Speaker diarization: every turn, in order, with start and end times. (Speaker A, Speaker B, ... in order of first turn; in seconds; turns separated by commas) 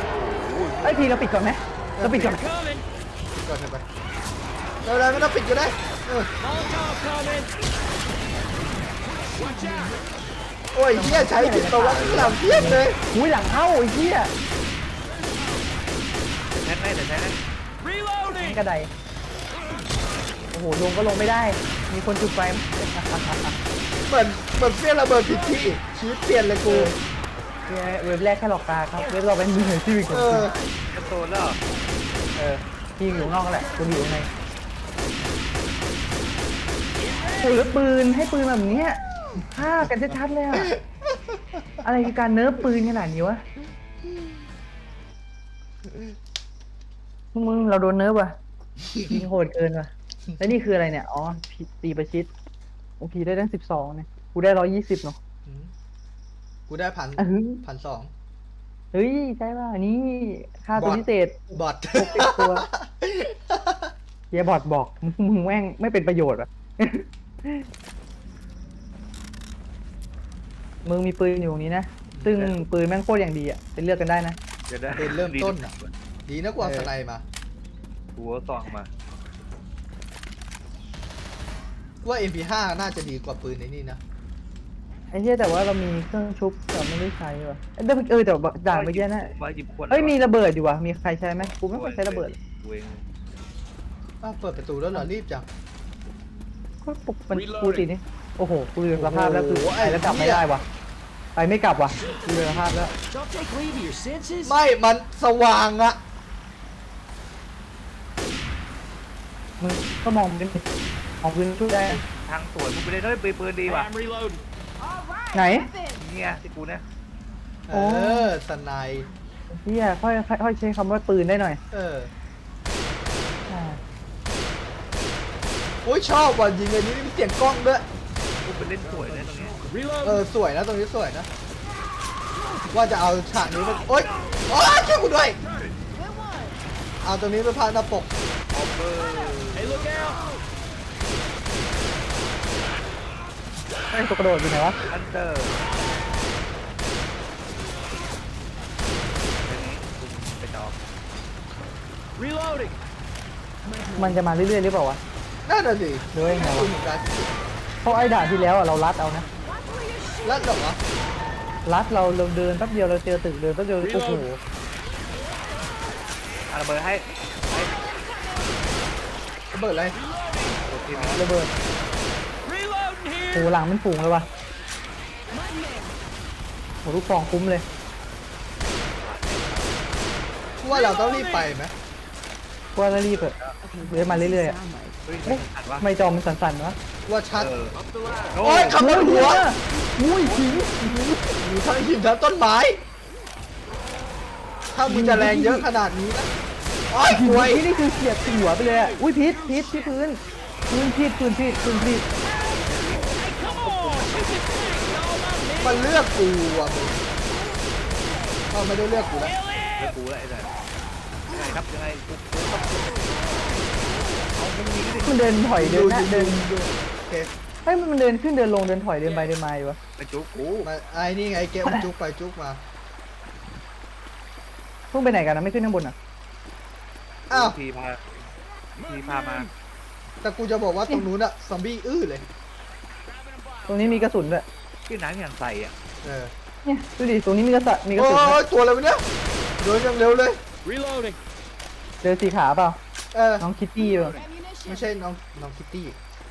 Speaker A: 0.3-0.9, Speaker B: 0.8-2.4, Speaker C: 1.9-2.4, Speaker A: 2.1-2.9, Speaker C: 3.4-3.8, Speaker C: 4.8-6.3, Speaker A: 6.4-7.5, Speaker A: 9.3-10.0, Speaker C: 10.7-13.0, Speaker B: 10.9-14.3, Speaker D: 16.5-17.4, Speaker A: 17.8-18.6, Speaker B: 18.3-18.9, Speaker B: 20.5-23.4, Speaker C: 24.1-26.9, Speaker B: 26.6-27.0, Speaker B: 27.7-30.5, Speaker C: 30.1-30.6, Speaker D: 30.9-31.6, Speaker B: 32.4-34.3, Speaker B: 37.4-39.0, Speaker B: 39.5-40.8, Speaker C: 40.5-41.6, Speaker B: 41.8-43.4, Speaker C: 45.9-46.1, Speaker B: 47.3-48.4, Speaker B: 49.0-52.3, Speaker B: 53.0-55.2, Speaker C: 55.5-55.7, Speaker C: 56.7-58.1, Speaker B: 57.2-57.6, Speaker B: 58.9-62.7, Speaker C: 60.8-63.9, Speaker B: 64.3-67.7, Speaker B: 70.8-74.4, Speaker C: 72.1-72.4, Speaker D: 74.7-75.9, Speaker C: 75.0-75.7, Speaker C: 76.3-77.2, Speaker B: 76.6-76.9, Speaker D: 78.2-78.9, Speaker C: 82.0-84.0, Speaker B: 85.1-89.3, Speaker D: 88.7-90.1, Speaker B: 89.9-92.3, Speaker D: 91.6-93.0, Speaker C: 94.2-95.5, Speaker B: 96.8-100.6, Speaker A: 97.3-97.9, Speaker C: 98.9-100.5, Speaker B: 101.3-102.9, Speaker A: 102.0-102.3, Speaker A: 103.1-104.6, Speaker C: 104.4-106.0, Speaker B: 109.6-110.6, Speaker B: 111.2-112.0, Speaker D: 112.1-113.9, Speaker A: 113.7-114.4, Speaker E: 114.8-115.9, Speaker B: 115.3-115.7, Speaker D: 116.0-116.8, Speaker C: 117.7-119.1, Speaker B: 117.7-118.3, Speaker B: 119.5-121.6, Speaker C: 121.7-122.1, Speaker B: 123.5-123.8, Speaker C: 125.8-127.8, Speaker D: 128.4-129.6, Speaker A: 129.6-130.2, Speaker C: 130.0-131.3, Speaker C: 132.7-135.4, Speaker E: 136.1-136.5, Speaker C: 137.0-138.1, Speaker D: 138.5-140.1, Speaker A: 139.5-140.2, Speaker B: 143.9-144.8, Speaker D: 144.9-145.5, Speaker D: 149.4-150.8, Speaker A: 152.2-152.8, Speaker A: 153.6-154.2, Speaker B: 154.0-155.0, Speaker C: 155.4-157.3, Speaker B: 156.1-156.7, Speaker B: 157.8-159.2, Speaker E: 159.6-160.2, Speaker C: 160.2-160.8, Speaker B: 161.7-164.4, Speaker A: 163.8-164.2, Speaker D: 166.5-167.7, Speaker C: 169.5-170.0, Speaker A: 169.9-170.6, Speaker D: 170.6-171.2, Speaker C: 170.9-171.2, Speaker B: 171.0-171.5, Speaker A: 172.4-173.5, Speaker B: 173.3-174.3, Speaker B: 176.8-177.6, Speaker D: 179.0-179.8, Speaker C: 180.6-181.7, Speaker A: 180.7-181.5, Speaker B: 182.8-184.6, Speaker D: 183.1-183.5, Speaker D: 185.1-185.9, Speaker B: 185.2-186.8, Speaker C: 187.1-187.5, Speaker D: 187.4-187.8, Speaker A: 187.7-188.4, Speaker D: 188.3-188.8, Speaker C: 188.4-189.5, Speaker B: 188.7-191.2, Speaker C: 191.3-192.8, Speaker C: 194.7-196.3, Speaker B: 194.8-195.7, Speaker C: 196.9-197.7, Speaker B: 197.1-202.1, Speaker A: 198.5-199.9, Speaker D: 202.7-204.4, Speaker A: 202.8-205.8, Speaker C: 205.6-207.0, Speaker C: 208.5-209.3, Speaker A: 209.2-209.9, Speaker D: 209.8-210.5, Speaker D: 211.3-213.1, Speaker D: 214.3-215.2, Speaker B: 215.0-216.5, Speaker C: 215.6-217.3, Speaker B: 217.6-219.8, Speaker A: 219.0-219.3, Speaker D: 220.0-220.7, Speaker C: 220.6-222.6, Speaker B: 224.9-225.9, Speaker D: 227.3-228.1, Speaker C: 227.3-227.6, Speaker D: 228.8-229.5, Speaker A: 228.9-229.5, Speaker C: 230.2-232.2, Speaker A: 233.1-234.0, Speaker B: 233.7-234.4, Speaker D: 234.9-235.7, Speaker C: 236.0-236.3, Speaker B: 236.6-238.4, Speaker C: 237.9-239.0, Speaker C: 239.6-240.4, Speaker A: 240.6-241.2, Speaker B: 242.0-242.8, Speaker C: 243.1-243.5, Speaker B: 243.4-244.2, Speaker A: 243.8-244.3, Speaker E: 244.2-244.7, Speaker C: 244.7-246.0